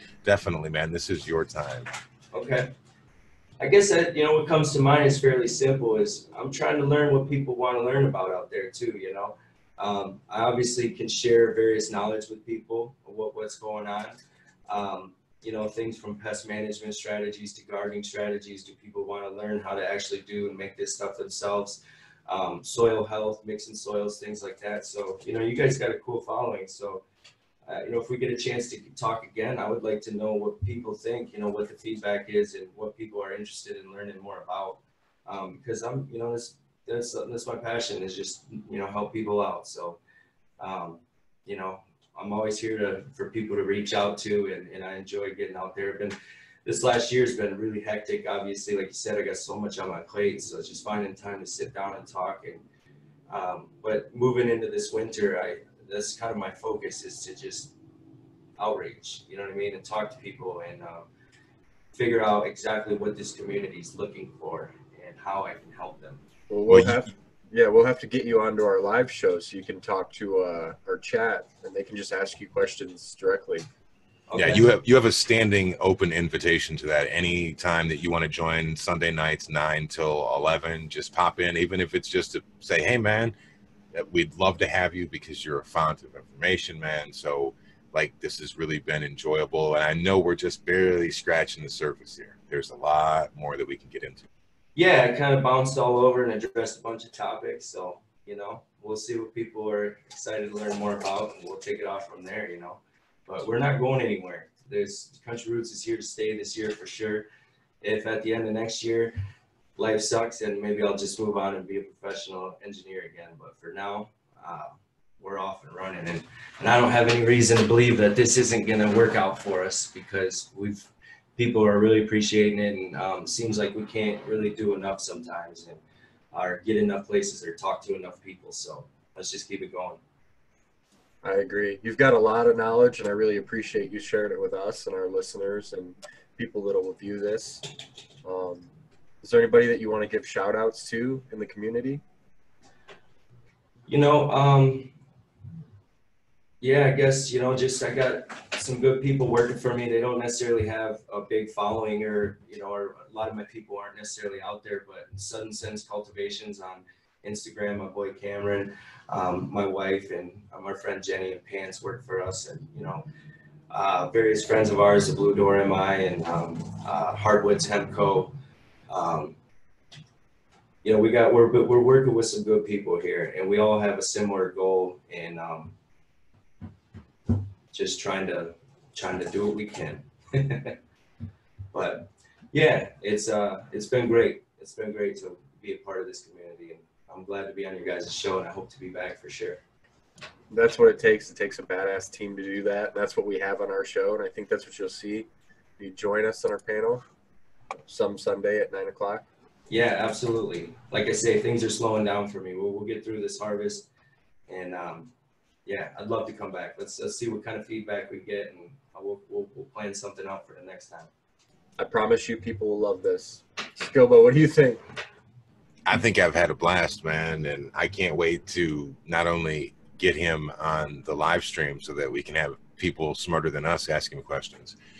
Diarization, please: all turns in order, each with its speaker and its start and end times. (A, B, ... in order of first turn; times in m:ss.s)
0:00.2-0:01.9 A
0:02.3-0:02.7 B
0:03.6-0:14.1 B
0:14.7-0:27.0 B
0:27.7-0:40.0 B
0:40.6-0:52.6 B
0:53.3-0:57.7 B
0:58.6-1:01.1 B
1:01.9-1:06.2 B
1:06.5-1:13.7 C
1:06.7-1:07.0 A
1:14.3-1:14.7 B
1:14.4-1:23.3 A
1:23.9-1:34.3 A
1:34.8-1:47.3 B
1:47.8-1:49.1 B
1:49.8-2:05.8 B
2:06.3-2:10.0 B
2:11.2-2:17.7 C
2:18.2-2:18.7 C
2:19.2-2:22.0 C
2:23.9-2:25.0 B
2:26.6-2:43.0 B
2:43.7-2:48.3 B
2:48.9-2:49.4 B
2:50.8-2:55.8 B
2:57.7-3:00.8 B
3:01.7-3:09.6 B
3:10.5-3:17.0 C
3:17.9-3:19.2 C
3:19.7-3:23.9 B
3:24.5-3:25.1 B
3:25.7-3:31.1 B
3:31.8-3:34.8 C
3:35.9-3:44.8 A